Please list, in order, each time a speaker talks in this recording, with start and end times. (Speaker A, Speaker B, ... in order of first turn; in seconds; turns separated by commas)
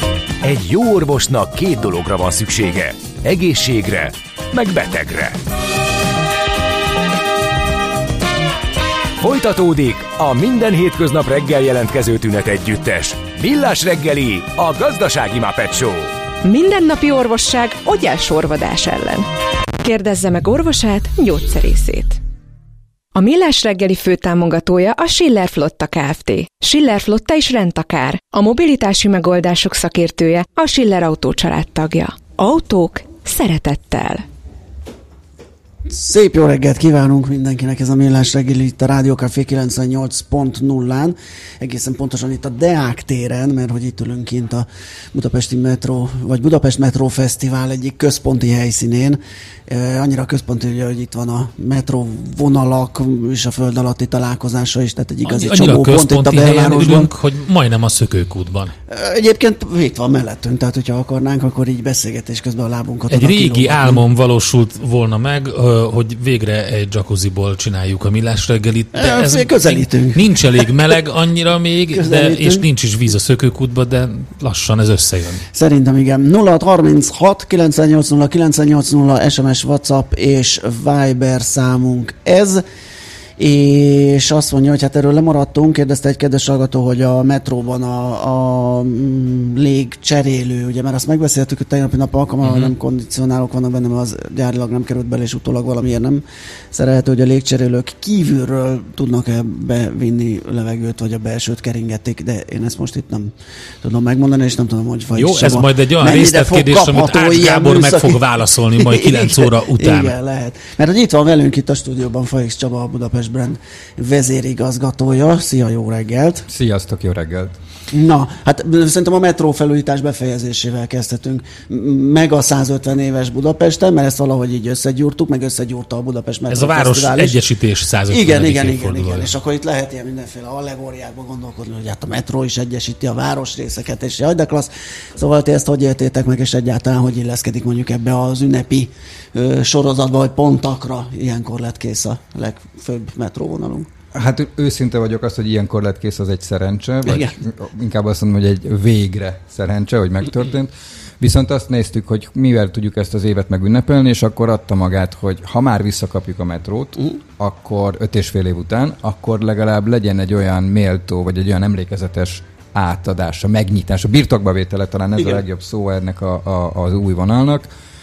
Speaker A: 0.4-5.4, Speaker A: 9.2-16.1, Speaker B: 16.4-19.3, Speaker B: 19.8-22.2, Speaker B: 23.1-34.2, Speaker C: 35.9-57.1, Speaker D: 55.2-58.7, Speaker C: 58.9-64.0, Speaker D: 63.1-75.4, Speaker C: 69.0-70.7, Speaker C: 71.9-72.7, Speaker C: 75.5-82.6, Speaker C: 83.4-108.2, Speaker D: 92.4-92.7, Speaker D: 105.1-110.2, Speaker C: 108.8-116.5, Speaker E: 116.5-117.6, Speaker C: 117.9-127.4, Speaker D: 126.5-129.3, Speaker C: 128.1-143.9, Speaker E: 144.1-167.7, Speaker C: 147.1-147.4